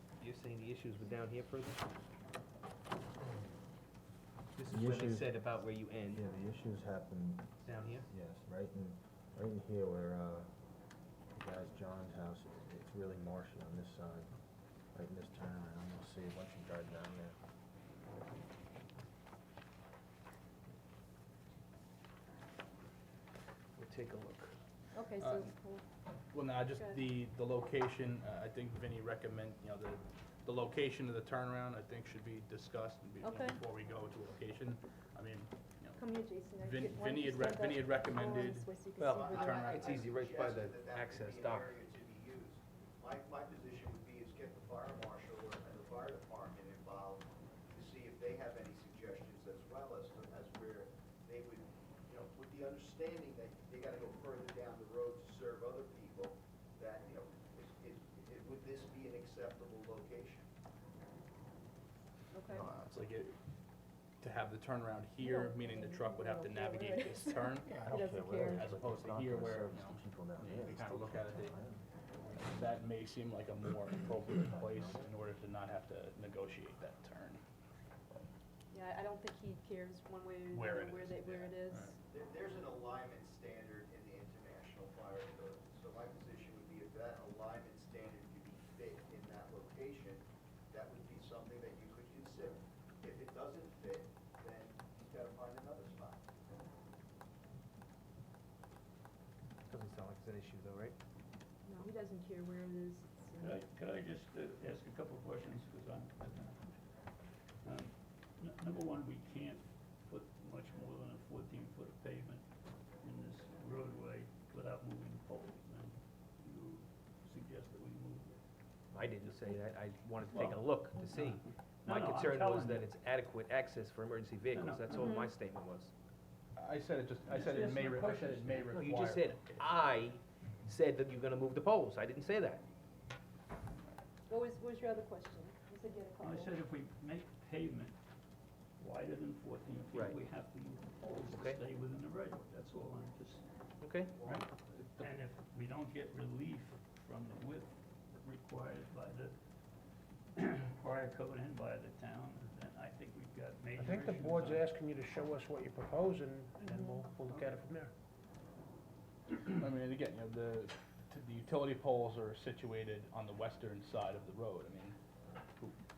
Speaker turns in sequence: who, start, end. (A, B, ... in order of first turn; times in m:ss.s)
0:00.2-0:01.8 A
0:04.6-0:06.2 A
0:04.7-0:05.4 B
0:06.1-0:10.5 B
0:07.7-0:08.1 A
0:11.3-0:14.3 B
0:14.9-0:17.4 B
0:23.8-0:24.6 A
0:24.9-0:25.8 C
0:25.2-0:25.6 D
0:26.3-0:36.0 D
0:26.8-0:27.0 C
0:33.2-0:33.6 C
0:36.0-0:39.8 C
0:36.6-0:39.9 D
0:39.0-0:41.8 A
0:39.1-1:00.5 E
1:02.3-1:02.6 C
1:02.5-1:02.9 B
1:02.7-1:03.4 D
1:04.2-1:07.8 D
1:05.2-1:08.8 C
1:07.7-1:11.8 B
1:08.4-1:11.6 D
1:12.2-1:17.4 D
1:14.1-1:15.1 B
1:18.7-1:22.0 C
1:20.5-1:21.9 D
1:22.1-1:36.2 E
1:39.7-1:41.0 A
1:41.7-1:43.6 C
1:43.4-1:47.0 F
1:47.6-1:52.5 F
1:53.0-1:58.4 F
1:58.9-2:05.9 A
2:00.3-2:00.6 F
2:01.2-2:02.9 F
2:04.5-2:05.2 F
2:04.9-2:05.4 C
2:06.6-2:09.8 D
2:07.2-2:08.7 F
2:08.7-2:12.6 A
2:14.3-2:16.6 C
2:16.2-2:18.0 F
2:18.8-2:23.4 F
2:19.9-2:20.2 A
2:21.3-2:21.6 A
2:23.8-2:24.1 A
2:24.2-2:29.3 F
2:24.7-2:25.1 D
2:30.4-2:34.6 F
2:33.8-2:37.9 G
2:36.6-2:36.9 C
2:36.6-2:37.6 F
2:39.3-2:45.0 D